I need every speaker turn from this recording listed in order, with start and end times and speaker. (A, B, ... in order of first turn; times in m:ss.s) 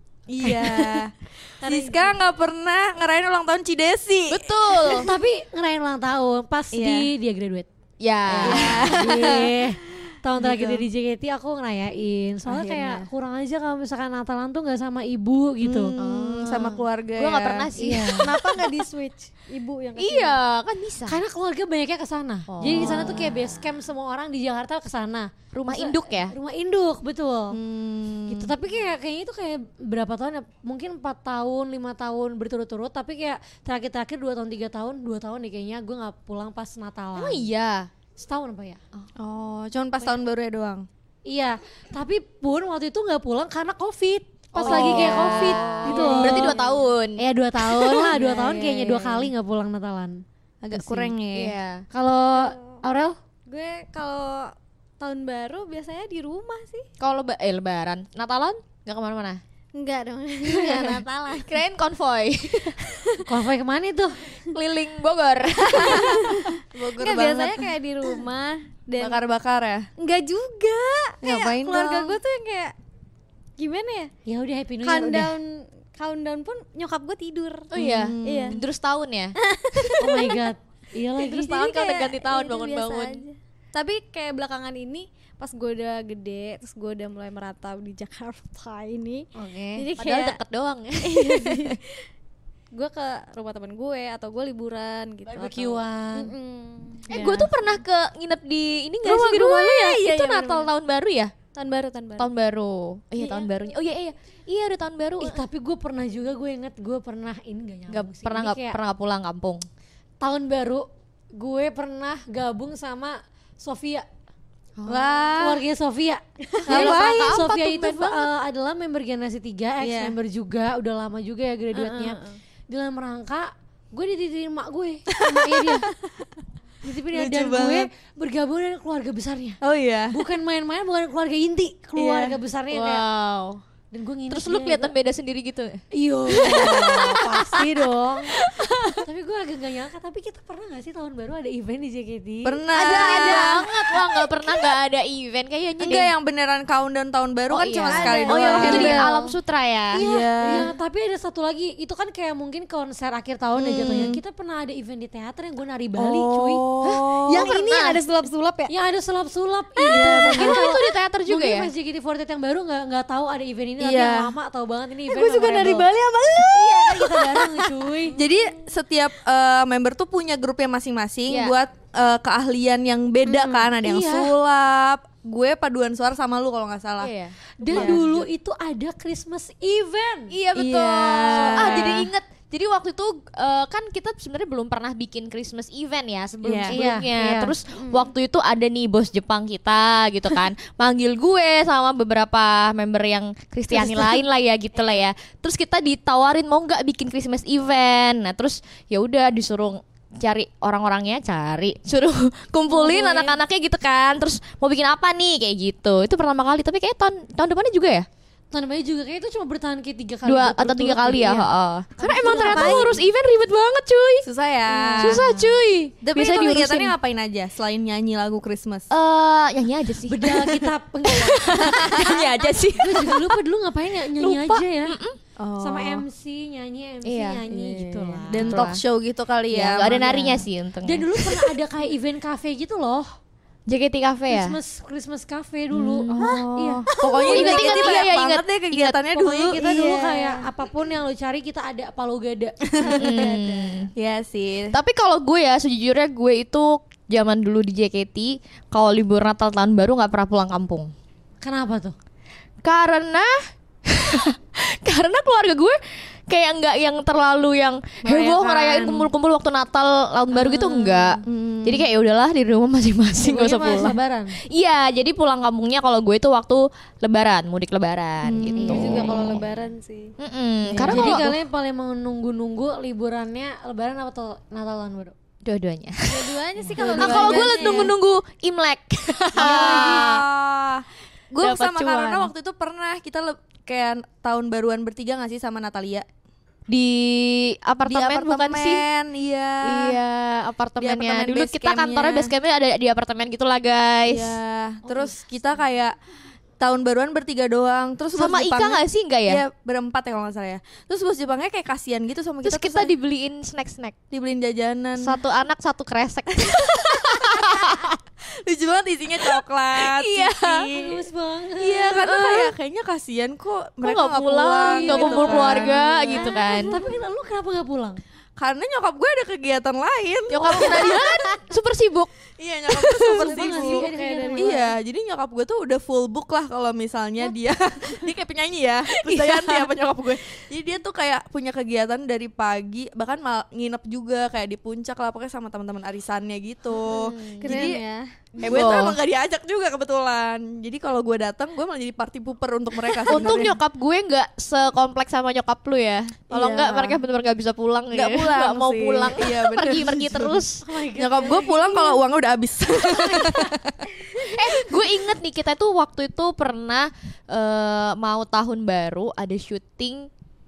0:00.3-0:05.1 A
0:00.4-0:00.9 B
0:01.6-0:02.1 B
0:04.3-0:05.1 C
0:04.9-0:07.7 B
0:06.7-0:07.1 A
0:08.0-0:08.9 C
0:08.3-0:16.0 B
0:08.4-0:09.5 A
0:10.4-0:10.8 A
0:12.5-0:13.1 A
0:15.6-0:17.7 A
0:16.0-0:18.7 C
0:17.8-0:18.3 B
0:18.2-0:20.4 D
0:20.0-0:21.2 C
0:21.1-0:27.6 B
0:22.5-0:23.6 C
0:25.5-0:26.3 C
0:27.5-0:28.5 A
0:28.3-0:37.4 B
0:37.2-0:37.9 C
0:38.2-0:38.8 B
0:39.2-0:40.9 A
0:41.3-0:46.6 B
0:44.5-0:47.2 C
0:44.6-0:46.6 A
0:45.7-0:46.2 D
0:47.2-0:51.1 B
0:47.9-0:48.2 A
0:47.9-0:49.3 C
0:50.6-0:51.6 A
0:51.3-0:51.8 C
0:51.9-0:53.2 B
0:52.4-0:52.8 D
0:53.5-0:56.9 D
0:57.0-0:59.4 C
0:59.7-1:01.6 D
1:00.5-1:02.8 C
1:02.8-1:03.3 D
1:03.2-1:04.3 B
1:04.5-1:06.4 C
1:05.7-1:09.2 D
1:06.7-1:07.7 A
1:09.0-1:09.9 A
1:10.0-1:12.7 D
1:11.2-1:12.2 A
1:13.6-1:14.1 D
1:14.3-1:15.4 B
1:14.8-1:18.6 D
1:17.7-1:19.4 C
1:17.8-1:18.6 A
1:19.4-1:20.4 D
1:20.0-1:21.7 B
1:21.2-1:30.4 D
1:21.4-1:23.2 C
1:29.4-1:31.8 C
1:31.0-1:31.9 D
1:32.7-1:37.5 D
1:35.3-1:35.7 C
1:35.3-1:36.3 B
1:37.1-1:41.3 C
1:39.0-1:40.7 D
1:41.5-1:42.3 D
1:42.2-1:45.4 C
1:43.2-1:43.6 D
1:45.2-1:48.8 B
1:47.9-1:49.6 C
1:50.2-1:54.1 B
1:54.8-1:55.2 C
1:54.9-1:55.6 A
1:55.4-2:02.2 B
1:56.7-1:57.1 A
1:56.7-1:58.3 C
1:59.8-2:00.2 A
2:01.8-2:02.4 D
2:02.7-2:05.9 B
2:05.2-2:05.5 A
2:06.8-2:09.6 B
2:07.1-2:07.9 A
2:09.6-2:10.2 A
2:10.1-2:13.0 B
2:12.0-2:12.4 A
2:12.7-2:13.6 C
2:13.9-2:14.9 B
2:14.3-2:15.8 C
2:15.9-2:18.4 B
2:16.3-2:17.7 A
2:18.4-2:19.0 A
2:19.0-2:23.5 B
2:22.4-2:24.2 A
2:22.7-2:26.1 C
2:25.8-2:29.0 A
2:27.5-2:30.0 C
2:27.9-2:29.0 D
2:28.1-2:29.3 B
2:29.9-2:36.6 B
2:30.0-2:30.7 A
2:33.6-2:34.2 A
2:36.0-2:37.5 A
2:36.8-2:38.0 C
2:37.3-2:38.7 D
2:38.7-2:45.9 B
2:39.9-2:40.6 A
2:40.2-2:41.7 C
2:43.8-2:44.3 A
2:45.2-2:46.5 A
2:45.3-2:47.7 D
2:46.5-2:48.2 B
2:48.2-2:57.1 A
2:51.3-2:51.6 C
2:53.3-2:53.8 D
2:53.8-2:54.3 B
2:57.0-2:58.0 C
2:57.6-3:00.3 B
2:57.7-2:58.3 A
3:00.3-3:28.1 C
3:00.5-3:02.1 A
3:01.3-3:02.0 B
3:06.4-3:06.8 A
3:06.7-3:07.5 B
3:07.8-3:08.1 D
3:13.7-3:14.2 B
3:22.7-3:23.4 B
3:28.5-3:33.0 B
3:30.2-3:34.3 C
3:32.5-3:33.0 D
3:34.2-3:35.2 A
3:34.7-3:35.5 B
3:35.0-3:37.0 C
3:36.0-3:38.9 A
3:38.9-3:40.4 C
3:40.1-3:42.2 B
3:41.2-3:42.6 A
3:41.4-3:43.2 C
3:42.8-3:45.0 B
3:44.2-3:45.2 C
3:45.4-3:46.0 A
3:45.6-3:48.8 B
3:47.0-3:48.8 C
3:48.3-3:50.2 A
3:49.5-3:51.2 C
3:49.8-3:53.1 B
3:53.7-3:54.6 C
3:54.3-3:58.0 B
3:55.7-3:56.1 C
3:56.1-3:59.9 A
3:56.9-3:57.8 D
3:57.3-3:59.0 C
3:59.1-4:02.6 B
3:59.5-4:00.5 D
4:02.8-4:03.9 D
4:03.0-4:03.9 C
4:04.0-4:04.8 A
4:04.7-4:10.9 C
4:11.4-4:12.0 B
4:12.6-4:13.4 C
4:13.9-4:15.8 C
4:16.3-4:24.0 C
4:18.0-4:19.1 B
4:20.3-4:21.2 B
4:21.2-4:21.9 A
4:23.2-4:24.4 B
4:24.5-4:29.4 C
4:28.2-4:29.3 A
4:28.6-4:29.3 B
4:28.7-4:30.1 D
4:30.2-4:31.3 C
4:30.7-4:31.4 A
4:30.8-4:35.1 B
4:35.4-4:40.2 C
4:36.0-4:37.9 D
4:36.6-4:37.5 B
4:36.8-4:37.9 A
4:39.4-4:46.1 A
4:39.4-4:40.0 D
4:39.5-4:40.0 B
4:41.4-4:42.3 C
4:46.7-4:48.8 C
4:47.9-4:50.0 A
4:49.6-4:54.4 C
4:50.8-4:52.3 A
4:54.1-4:56.0 A
4:56.6-5:02.9 A
4:58.1-4:59.4 C
5:02.4-5:04.0 C
5:04.1-5:05.2 A
5:05.0-5:07.9 C
5:06.7-5:07.8 A
5:08.4-5:11.0 A
5:09.2-5:10.7 C
5:10.7-5:12.1 B
5:11.6-5:16.6 A
5:12.0-5:12.6 C
5:13.8-5:16.8 C
5:14.6-5:18.0 B
5:18.4-5:21.3 A
5:20.3-5:22.1 C
5:22.4-5:37.8 A
5:22.7-5:23.1 C
5:23.2-5:24.7 D
5:23.2-5:24.7 B
5:29.0-5:29.4 C
5:36.8-5:37.6 C
5:37.4-5:38.0 D
5:38.4-5:43.6 A
5:38.4-5:39.0 C
5:43.1-5:50.6 C
5:46.3-5:47.0 A
5:47.9-5:50.4 A
5:50.6-5:52.0 B
5:51.0-5:54.5 A
5:54.2-6:00.1 C